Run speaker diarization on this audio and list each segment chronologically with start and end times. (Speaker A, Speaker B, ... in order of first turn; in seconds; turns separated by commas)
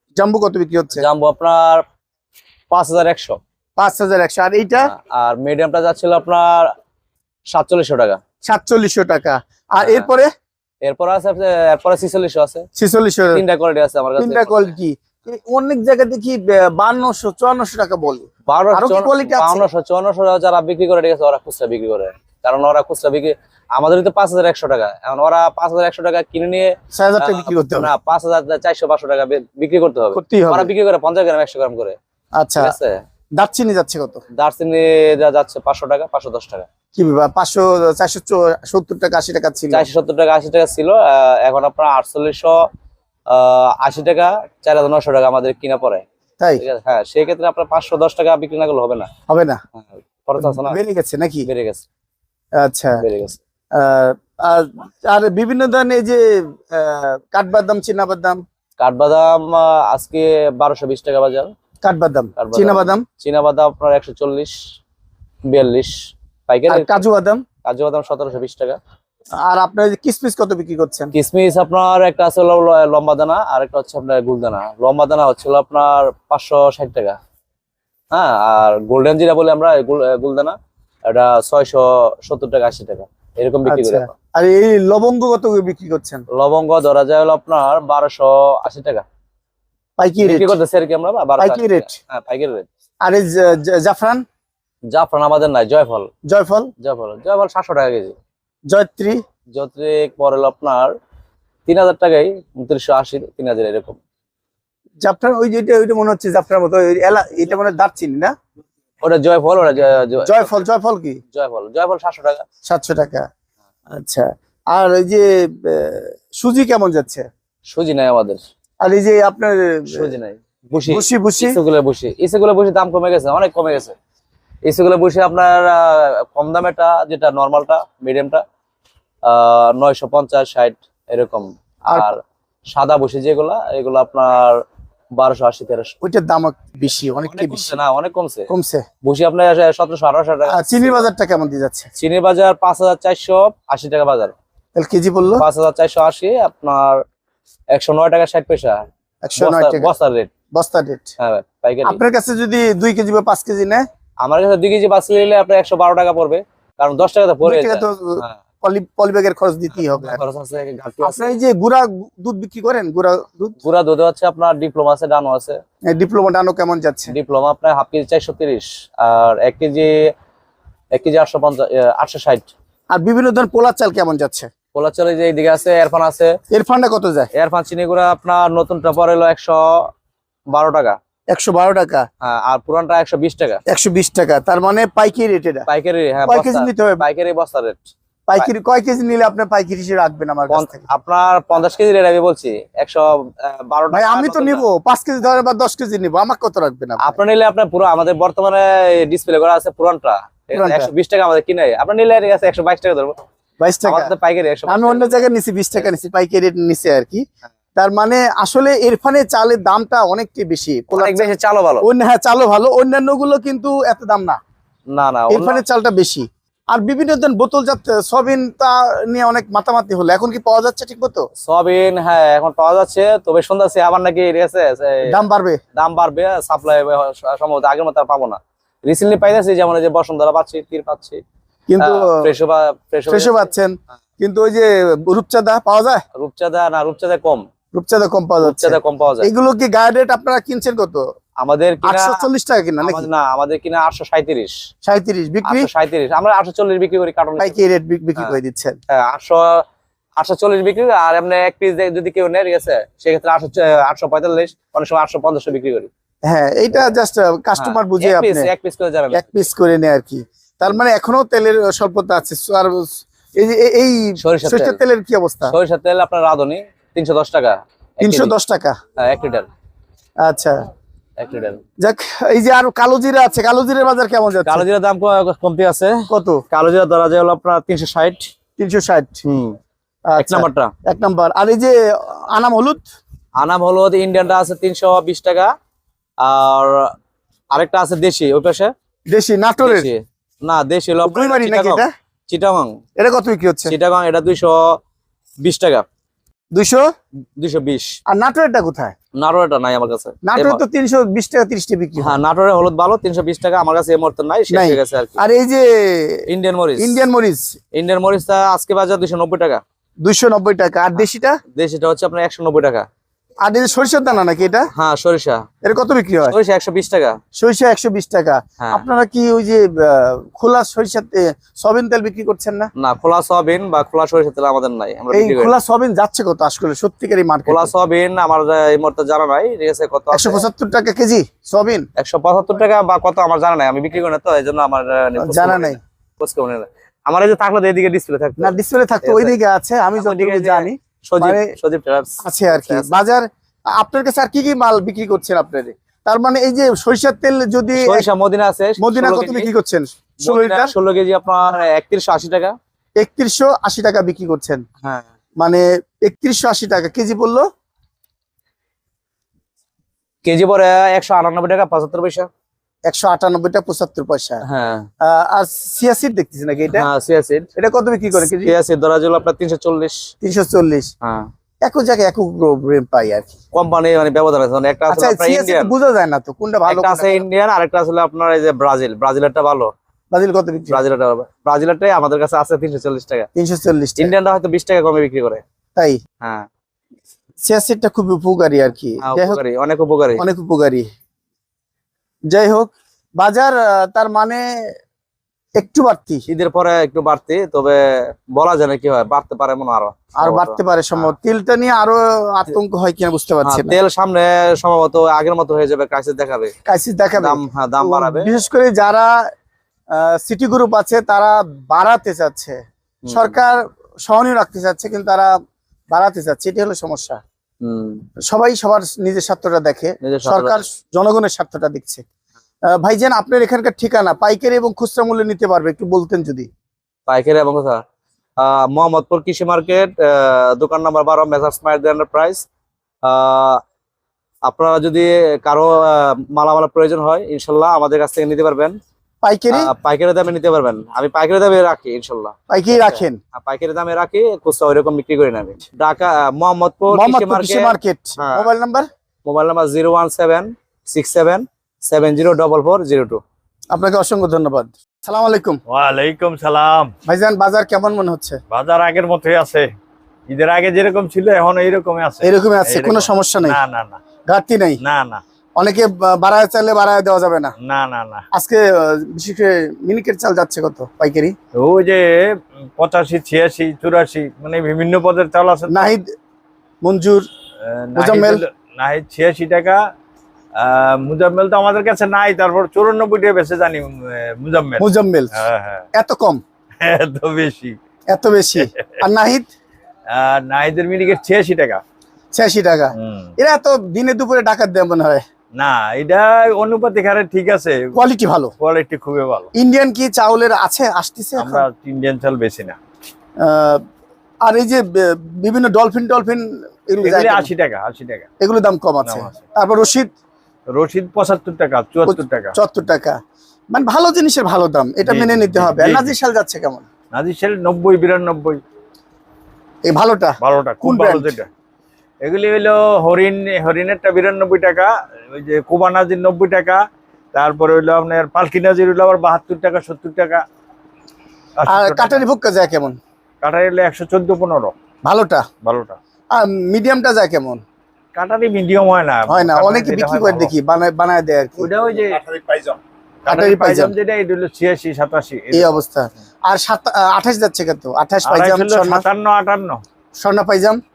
Speaker A: 0.2-1.0, Speaker B: 0.9-1.8, Speaker B: 2.7-3.4, Speaker A: 3.8-4.9, Speaker B: 4.8-6.7, Speaker B: 7.5-8.2, Speaker A: 8.4-10.3, Speaker B: 9.8-10.1, Speaker B: 10.8-12.7, Speaker A: 12.8-13.4, Speaker B: 13.3-14.8, Speaker A: 14.2-19.7, Speaker B: 18.5-32.0, Speaker A: 26.9-27.9, Speaker A: 30.1-30.7, Speaker A: 32.4-32.7, Speaker B: 32.6-33.0, Speaker A: 33.4-34.2, Speaker B: 34.4-36.7, Speaker A: 36.9-39.9, Speaker B: 39.7-42.5, Speaker B: 43.3-46.0, Speaker B: 46.6-49.1, Speaker A: 49.3-49.6, Speaker B: 49.8-50.8, Speaker A: 50.4-51.5, Speaker B: 51.4-51.8, Speaker A: 52.6-53.0, Speaker B: 53.0-53.4, Speaker A: 53.7-58.4, Speaker B: 58.8-61.5, Speaker A: 61.8-63.0, Speaker B: 62.4-64.5, Speaker B: 65.5-65.9, Speaker B: 66.5-67.0, Speaker A: 66.7-67.4, Speaker B: 67.6-68.8, Speaker A: 69.4-71.1, Speaker B: 71.1-77.2, Speaker B: 78.1-80.5, Speaker B: 81.1-84.1, Speaker A: 83.7-86.2, Speaker B: 86.3-89.0, Speaker A: 90.0-90.6, Speaker B: 90.2-92.7, Speaker A: 91.4-91.9, Speaker A: 93.0-94.2, Speaker B: 94.9-96.1, Speaker A: 96.3-96.7, Speaker B: 96.8-98.1, Speaker A: 98.7-99.2, Speaker B: 99.5-100.9, Speaker B: 101.7-104.0, Speaker A: 105.0-108.3, Speaker B: 109.0-110.6, Speaker A: 110.2-111.2, Speaker B: 111.3-112.5, Speaker A: 112.6-113.3, Speaker A: 113.9-117.3, Speaker B: 117.7-118.4, Speaker A: 118.8-120.1, Speaker B: 119.9-124.0, Speaker A: 120.9-121.6, Speaker B: 124.7-128.4, Speaker B: 129.2-132.2, Speaker B: 132.7-134.6, Speaker B: 135.2-135.9, Speaker A: 136.0-137.8, Speaker B: 137.2-138.5, Speaker A: 138.5-138.8, Speaker B: 139.0-141.1, Speaker A: 140.5-141.9, Speaker B: 142.0-144.3, Speaker A: 144.8-145.4, Speaker B: 145.4-147.0, Speaker B: 147.7-148.8, Speaker A: 149.2-149.9, Speaker B: 149.4-150.3, Speaker A: 150.5-151.1, Speaker B: 151.2-152.0, Speaker A: 151.8-153.8, Speaker B: 154.2-158.4, Speaker A: 157.4-160.2, Speaker B: 159.7-161.3, Speaker A: 161.0-163.6, Speaker B: 163.6-165.6, Speaker A: 165.9-167.1, Speaker B: 167.1-170.0, Speaker B: 170.9-172.5, Speaker A: 172.9-174.5, Speaker B: 174.7-176.3, Speaker A: 176.5-177.3, Speaker B: 177.3-179.9, Speaker B: 180.5-181.0, Speaker A: 181.3-182.1, Speaker B: 182.2-183.6, Speaker A: 183.7-185.7, Speaker B: 185.7-188.5, Speaker A: 186.3-187.0, Speaker A: 188.3-190.8, Speaker B: 190.5-194.6, Speaker A: 193.9-197.2, Speaker B: 197.0-203.1, Speaker A: 200.5-200.9, Speaker A: 203.6-204.1, Speaker B: 203.8-205.2, Speaker A: 204.7-207.2, Speaker A: 207.8-211.3, Speaker B: 210.9-211.9, Speaker A: 211.8-214.4, Speaker B: 214.9-215.6, Speaker A: 215.3-221.2, Speaker B: 221.5-225.1, Speaker A: 225.1-225.6, Speaker B: 225.8-231.2, Speaker A: 231.7-232.3, Speaker B: 231.8-233.5, Speaker A: 233.1-236.0, Speaker B: 236.2-237.4, Speaker A: 237.7-241.0, Speaker B: 238.4-239.3, Speaker B: 241.4-242.3, Speaker A: 241.8-243.1, Speaker B: 242.8-244.5, Speaker A: 244.8-245.7, Speaker B: 245.4-247.6, Speaker A: 247.4-248.8, Speaker B: 248.9-249.6, Speaker B: 250.2-255.9, Speaker A: 256.2-258.5, Speaker B: 257.6-259.3, Speaker A: 259.1-265.5, Speaker B: 264.2-264.8, Speaker B: 265.4-268.3, Speaker A: 268.0-268.8, Speaker B: 269.0-269.5, Speaker A: 270.2-270.6, Speaker B: 271.2-271.6, Speaker A: 271.8-274.6, Speaker B: 274.4-278.3, Speaker A: 276.1-276.4, Speaker A: 278.6-279.2, Speaker B: 279.2-279.6, Speaker A: 280.1-282.9, Speaker B: 280.2-280.7, Speaker B: 283.4-285.5, Speaker B: 286.2-286.9, Speaker B: 287.5-288.7, Speaker A: 289.1-289.9, Speaker B: 289.6-292.8, Speaker A: 291.0-291.9, Speaker A: 293.0-293.7, Speaker B: 293.7-294.8, Speaker B: 295.4-295.8, Speaker A: 296.5-296.9, Speaker B: 297.4-297.9, Speaker A: 298.1-298.9, Speaker B: 299.2-300.6, Speaker A: 300.2-302.2, Speaker B: 302.0-305.2, Speaker A: 304.5-306.2, Speaker B: 306.3-307.0, Speaker A: 306.8-307.6, Speaker B: 307.7-309.6, Speaker A: 310.0-311.4, Speaker B: 310.9-312.9, Speaker A: 313.4-314.7, Speaker B: 314.7-315.4, Speaker A: 315.6-316.4, Speaker B: 316.2-317.2, Speaker A: 317.4-322.7, Speaker B: 318.6-318.9, Speaker B: 322.8-325.5, Speaker A: 325.1-327.7, Speaker B: 327.5-330.4, Speaker A: 330.1-331.9, Speaker B: 332.0-339.3, Speaker A: 335.2-335.8, Speaker A: 338.4-341.5, Speaker B: 340.0-342.9, Speaker A: 342.2-348.1, Speaker B: 347.8-349.5, Speaker A: 348.8-350.7, Speaker B: 350.2-352.5, Speaker A: 353.0-354.6, Speaker A: 355.4-357.4, Speaker B: 360.2-362.3, Speaker A: 362.8-364.4, Speaker B: 364.4-364.9, Speaker A: 365.0-366.9, Speaker B: 366.7-367.5, Speaker A: 367.6-368.5, Speaker B: 368.2-370.0, Speaker A: 370.2-370.9, Speaker B: 371.0-371.3, Speaker A: 371.6-373.3, Speaker B: 373.5-375.7, Speaker A: 374.9-377.2, Speaker B: 376.7-379.7, Speaker A: 380.1-380.8, Speaker B: 380.7-383.3, Speaker A: 383.4-384.1, Speaker B: 384.0-385.4, Speaker B: 386.2-386.5, Speaker A: 387.4-389.4, Speaker B: 389.0-390.2, Speaker A: 390.2-390.9, Speaker A: 392.3-394.5, Speaker A: 395.6-396.2, Speaker B: 396.3-401.1, Speaker A: 400.2-403.8, Speaker B: 403.4-406.5, Speaker A: 406.6-409.1, Speaker B: 407.1-408.4, Speaker A: 409.9-412.6, Speaker B: 413.1-413.4, Speaker A: 413.1-415.3, Speaker A: 415.9-417.2, Speaker B: 417.6-418.0, Speaker A: 418.2-422.0, Speaker B: 420.0-420.7, Speaker A: 422.7-426.5, Speaker B: 427.1-427.8, Speaker B: 428.4-432.4, Speaker B: 433.0-433.6, Speaker B: 434.4-438.8, Speaker A: 439.2-439.7, Speaker B: 439.5-448.5, Speaker A: 442.5-443.2, Speaker A: 446.9-448.9, Speaker B: 449.2-453.2, Speaker A: 453.7-455.6, Speaker C: 455.7-456.9, Speaker A: 457.1-458.4, Speaker C: 458.5-459.7, Speaker C: 460.3-464.0, Speaker A: 462.2-463.6, Speaker A: 464.3-464.8, Speaker C: 464.8-465.2, Speaker A: 465.6-467.5, Speaker C: 467.6-468.2, Speaker A: 468.3-471.3, Speaker C: 471.5-475.9, Speaker A: 475.7-476.1, Speaker A: 476.8-477.2, Speaker C: 477.6-479.8, Speaker A: 477.9-478.4, Speaker C: 480.6-485.9, Speaker A: 484.8-485.3, Speaker A: 485.9-486.4, Speaker C: 486.8-487.8, Speaker A: 488.1-489.5, Speaker C: 490.1-491.8, Speaker A: 492.3-495.2, Speaker C: 493.0-493.3, Speaker C: 495.6-497.9, Speaker A: 497.9-498.5, Speaker C: 498.6-499.5, Speaker A: 499.5-501.6, Speaker C: 501.4-502.8, Speaker A: 503.4-503.8, Speaker A: 504.4-507.5, Speaker C: 507.0-508.3, Speaker A: 508.4-510.1, Speaker C: 509.0-509.4, Speaker C: 510.7-512.5, Speaker A: 512.0-513.2, Speaker A: 513.7-516.8, Speaker C: 515.0-516.1, Speaker C: 517.1-518.6, Speaker A: 519.9-521.3, Speaker C: 520.4-521.5, Speaker C: 522.2-526.8, Speaker C: 527.3-530.4, Speaker C: 531.6-532.2, Speaker A: 531.7-533.0, Speaker C: 533.4-534.7, Speaker A: 535.0-535.4, Speaker C: 535.6-536.0, Speaker A: 536.3-537.6, Speaker C: 538.1-540.5, Speaker A: 539.3-541.7, Speaker C: 541.6-545.8, Speaker A: 543.3-543.9, Speaker A: 545.5-549.0, Speaker C: 548.2-549.8, Speaker A: 550.2-550.8